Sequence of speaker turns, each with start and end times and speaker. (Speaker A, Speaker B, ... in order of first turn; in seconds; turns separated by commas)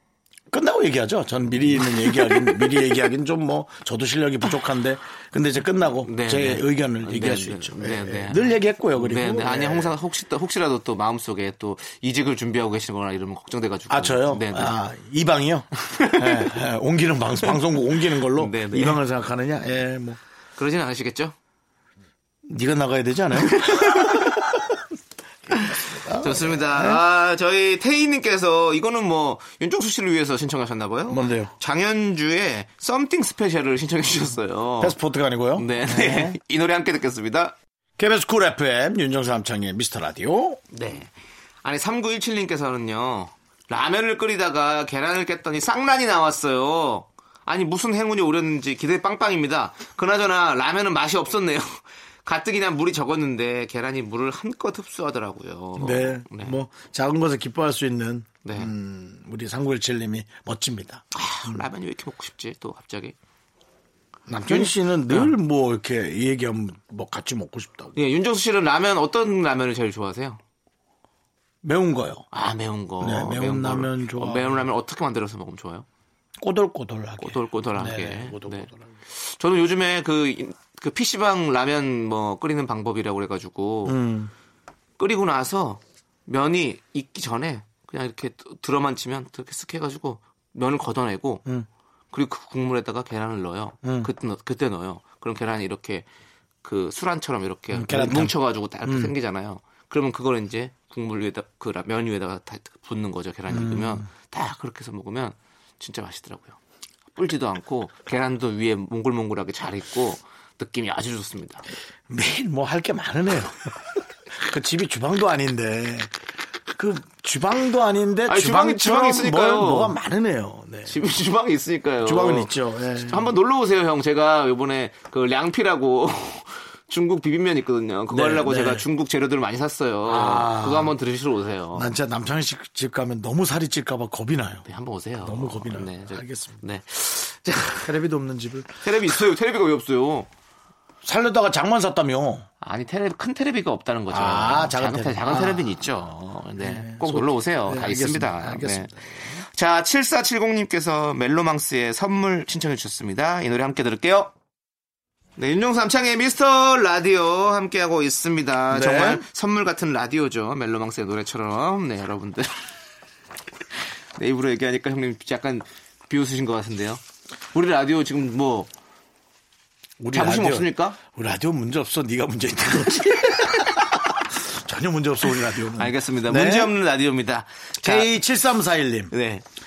Speaker A: 0.5-9.9, Speaker B: 1.8-2.5, Speaker B: 6.0-14.8, Speaker A: 13.9-20.2, Speaker B: 15.9-16.5, Speaker B: 18.3-19.0, Speaker B: 20.6-21.3, Speaker A: 22.5-24.7, Speaker B: 23.5-24.3, Speaker A: 25.6-27.0, Speaker B: 26.2-35.0, Speaker A: 31.1-31.5, Speaker A: 34.8-36.4, Speaker B: 35.5-37.5, Speaker A: 38.0-40.6, Speaker B: 40.7-41.1, Speaker B: 41.6-56.6, Speaker A: 55.8-61.6, Speaker B: 58.4-58.7, Speaker B: 61.1-63.1, Speaker A: 64.3-68.0, Speaker B: 64.4-65.3, Speaker B: 67.9-70.4, Speaker A: 71.6-72.2, Speaker B: 72.3-75.8, Speaker A: 73.0-74.7, Speaker A: 76.4-78.8, Speaker B: 77.2-84.0, Speaker A: 83.8-84.3, Speaker B: 85.0-91.4, Speaker B: 92.1-96.0, Speaker A: 93.8-94.1, Speaker B: 96.6-106.6, Speaker A: 97.7-99.1, Speaker A: 103.5-104.1, Speaker B: 107.1-111.6, Speaker A: 112.1-113.8, Speaker A: 114.3-116.1, Speaker A: 116.7-121.0, Speaker B: 118.3-120.0, Speaker B: 120.8-131.9, Speaker A: 122.0-123.3, Speaker A: 128.1-128.8, Speaker A: 130.1-130.9, Speaker A: 131.7-134.7, Speaker B: 134.7-137.9, Speaker A: 135.2-136.6, Speaker A: 137.8-139.2, Speaker B: 138.8-140.3, Speaker A: 141.0-142.5, Speaker B: 142.6-148.9, Speaker A: 144.1-146.0, Speaker A: 146.6-149.4, Speaker B: 149.5-154.3, Speaker B: 155.4-162.5, Speaker A: 158.7-159.2, Speaker B: 164.2-167.0, Speaker B: 167.5-168.7, Speaker A: 170.0-176.7, Speaker B: 170.1-171.0, Speaker B: 175.8-178.1, Speaker A: 177.8-179.1, Speaker B: 179.1-179.4